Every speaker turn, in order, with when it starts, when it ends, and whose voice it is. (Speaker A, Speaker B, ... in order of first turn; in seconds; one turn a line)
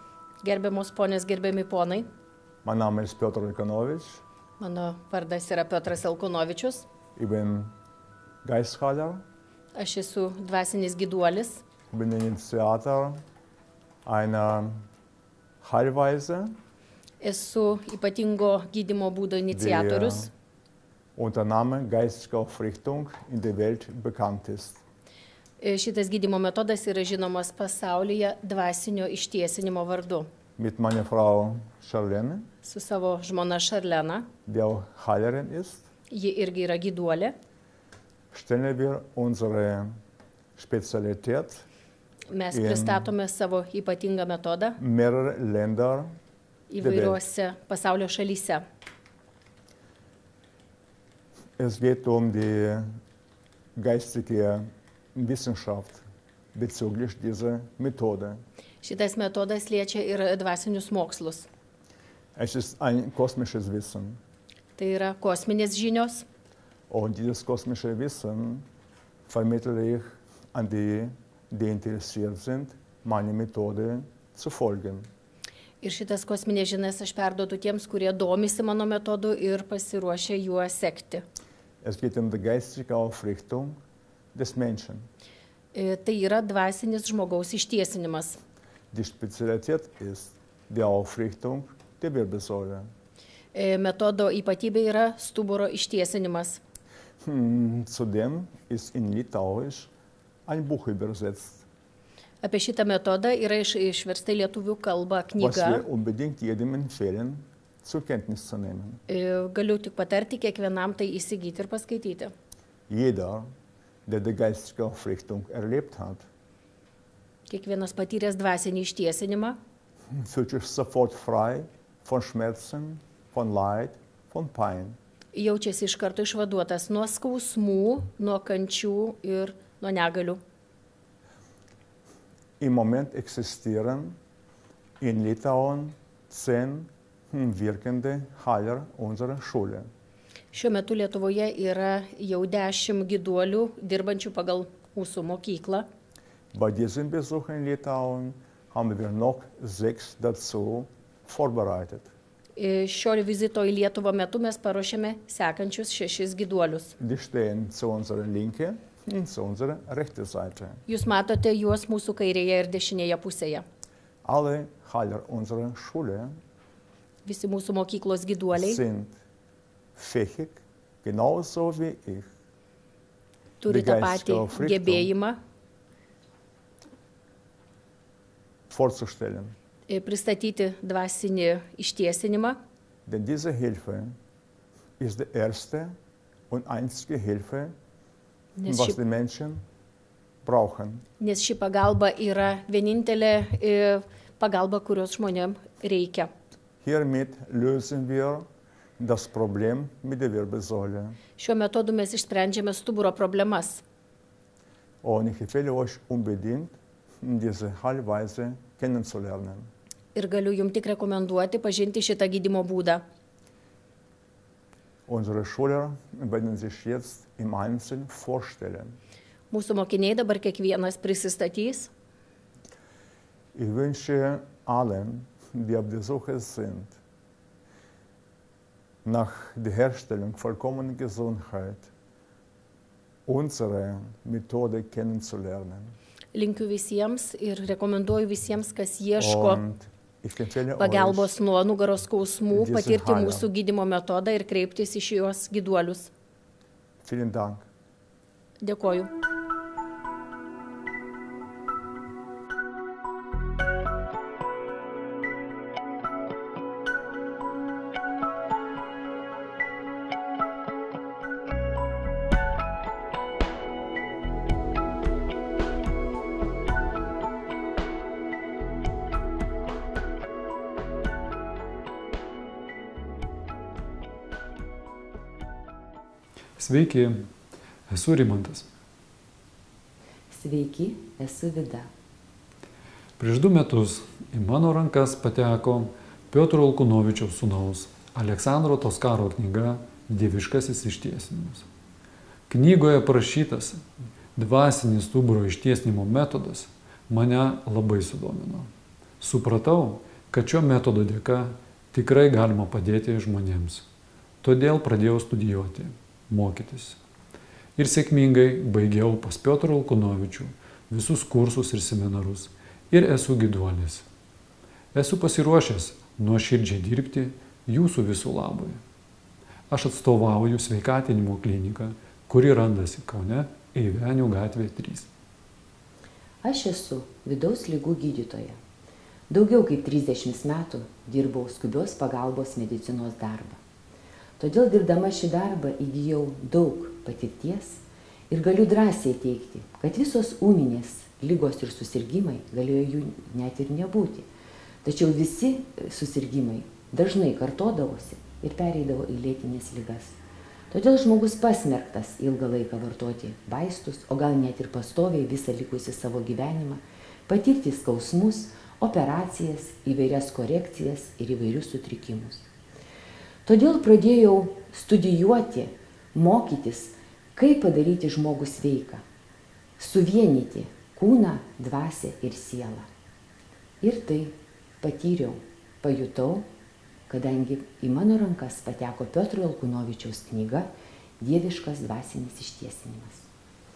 Speaker A: 0.4-2.1
Speaker B: 2.6-4.2
Speaker A: 4.6-6.9
Speaker B: 7.2-7.7
Speaker B: 8.4-9.2
Speaker A: 9.7-11.6
Speaker B: 11.9-13.2
Speaker B: 14.0-14.7
Speaker B: 15.6-16.5
Speaker A: 17.2-20.3
Speaker B: 19.5-20.3
Speaker B: 21.1-24.8
Speaker A: 25.6-30.3
Speaker B: 30.6-32.4
Speaker A: 32.6-34.2
Speaker B: 34.5-35.9
Speaker A: 36.1-37.3
Speaker B: 38.3-39.9
Speaker B: 40.6-41.6
Speaker A: 42.3-44.8
Speaker B: 42.5-43.1
Speaker B: 44.8-46.1
Speaker A: 46.7-48.6
Speaker B: 46.8-47.2
Speaker B: 51.6-52.8
Speaker B: 53.8-56.0
Speaker B: 56.5-58.4
Speaker A: 58.8-61.5
Speaker B: 62.4-64.2
Speaker A: 64.8-66.2
Speaker B: 66.9-68.6
Speaker B: 69.3-75.1
Speaker A: 75.8-81.2
Speaker B: 81.8-83.7
Speaker B: 84.3-85.1
Speaker A: 85.7-88.4
Speaker B: 88.9-92.8
Speaker A: 93.5-96.6
Speaker B: 97.2-99.9
Speaker B: 100.5-101.6
Speaker A: 102.4-105.8
Speaker B: 105.4-109.0
Speaker A: 109.1-112.3
Speaker B: 112.9-113.4
Speaker B: 114.1-116.2
Speaker A: 117.5-119.6
Speaker B: 120.2-125.0
Speaker A: 125.3-130.4
Speaker B: 132.6-134.2
Speaker B: 135.0-139.8
Speaker A: 140.5-145.8
Speaker B: 146.5-152.1
Speaker A: 152.6-156.9
Speaker B: 157.0-160.8
Speaker A: 160.9-163.6
Speaker B: 164.2-166.3
Speaker A: 167.2-168.8
Speaker B: 168.5-169.2
Speaker B: 169.9-172.3
Speaker A: 173.6-175.4
Speaker B: 173.7-175.1
Speaker B: 178.7-179.5
Speaker A: 179.9-182.6
Speaker B: 183.1-184.1
Speaker B: 185.0-185.9
Speaker B: 186.5-187.7
Speaker A: 188.6-189.0
Speaker B: 188.7-189.6
Speaker B: 190.4-191.0
Speaker A: 191.2-196.3
Speaker B: 196.8-198.4
Speaker B: 199.0-201.2
Speaker A: 201.4-203.8
Speaker B: 205.0-209.7
Speaker A: 210.1-213.0
Speaker B: 215.1-219.0
Speaker A: 219.5-221.9
Speaker B: 223.5-227.0
Speaker B: 229.0-231.9
Speaker B: 233.3-235.9
Speaker A: 236.3-239.6
Speaker B: 239.2-241.3
Speaker A: 240.8-246.1
Speaker B: 242.5-243.5
Speaker B: 247.0-247.7
Speaker A: 248.6-249.1
Speaker C: 276.6-277.2
Speaker C: 277.9-278.6
Speaker D: 280.3-281.9
Speaker C: 283.2-291.6
Speaker C: 292.5-293.8
Speaker C: 294.4-298.7
Speaker C: 299.2-303.8
Speaker C: 304.4-307.0
Speaker C: 307.8-314.1
Speaker C: 314.9-318.8
Speaker C: 319.7-325.1
Speaker D: 326.4-328.6
Speaker D: 329.3-333.6
Speaker D: 334.4-344.3
Speaker D: 344.8-350.2
Speaker D: 350.7-362.4
Speaker D: 363.4-369.0
Speaker D: 369.8-372.9
Speaker D: 373.8-376.5
Speaker D: 377.1-380.7
Speaker D: 381.2-383.3